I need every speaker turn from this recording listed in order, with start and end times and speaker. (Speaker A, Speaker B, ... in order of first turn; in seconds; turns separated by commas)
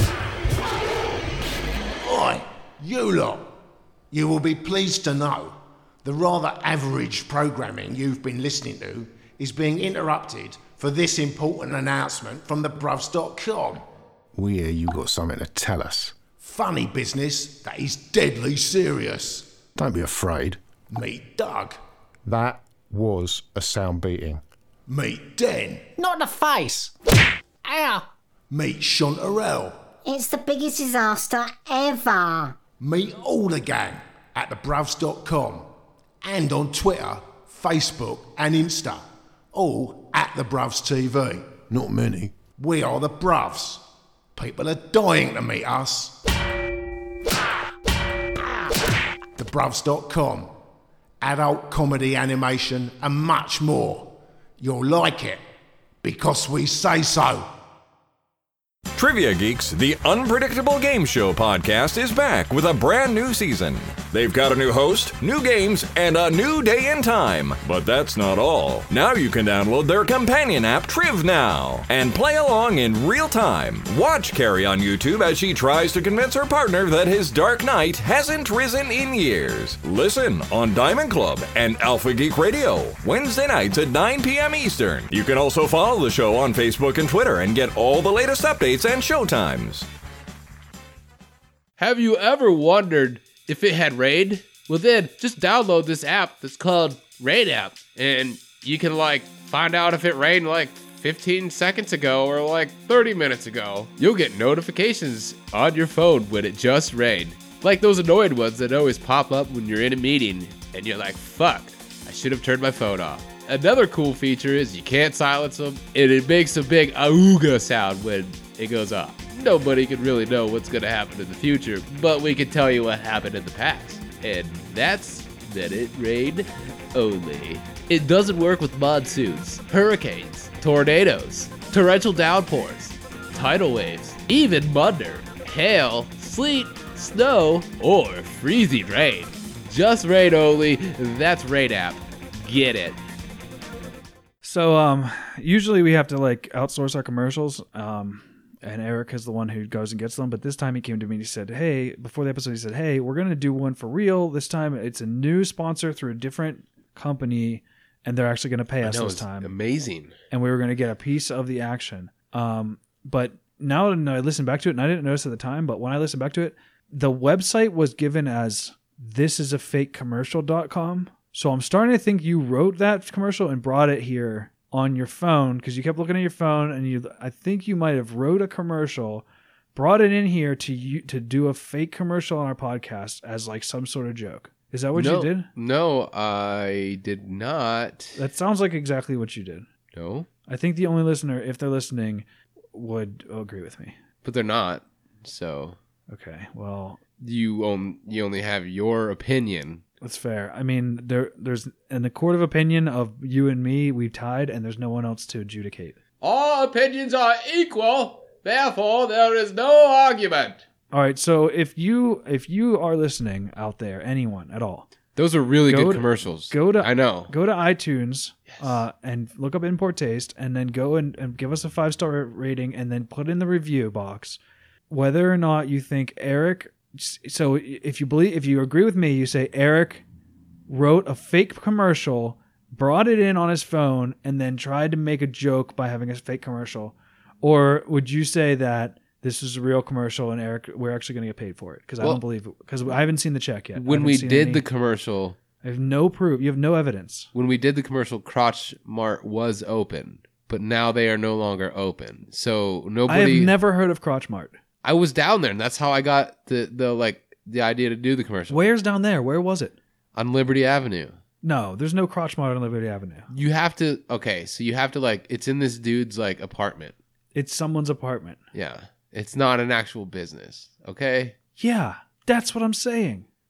Speaker A: 2.0-3.5, Speaker A: 4.1-13.8, Speaker B: 14.3-16.3, Speaker A: 16.2-19.5, Speaker B: 19.8-20.6, Speaker A: 20.9-21.8, Speaker B: 22.2-24.4, Speaker A: 24.9-25.9, Speaker C: 26.0-26.9, Speaker C: 27.6-28.1, Speaker A: 28.5-29.8, Speaker C: 30.0-32.6, Speaker A: 32.8-35.7, Speaker A: 36.2-43.8, Speaker A: 44.4-46.2, Speaker A: 49.4-50.5, Speaker A: 51.2-55.4, Speaker A: 56.0-57.5, Speaker D: 58.9-89.9, Speaker E: 91.8-143.0, Speaker F: 144.4-159.5, Speaker E: 158.8-160.2, Speaker F: 160.3-185.5, Speaker E: 184.9-188.2, Speaker F: 188.1-189.7, Speaker E: 189.9-190.3, Speaker F: 190.5-193.9, Speaker E: 194.2-195.8, Speaker F: 196.1-197.0, Speaker E: 197.2-199.8, Speaker F: 200.0-206.0, Speaker E: 206.2-210.6, Speaker F: 210.9-214.9, Speaker E: 215.2-217.3, Speaker F: 215.7-230.0, Speaker F: 230.7-244.6, Speaker E: 243.7-245.4, Speaker F: 245.6-247.3, Speaker E: 247.3-253.5, Speaker F: 253.1-254.6, Speaker E: 254.8-258.7, Speaker F: 258.5-259.8, Speaker E: 260.1-261.2, Speaker F: 261.4-263.3, Speaker E: 263.3-266.9, Speaker F: 267.3-268.4, Speaker E: 268.5-271.3, Speaker F: 271.6-273.2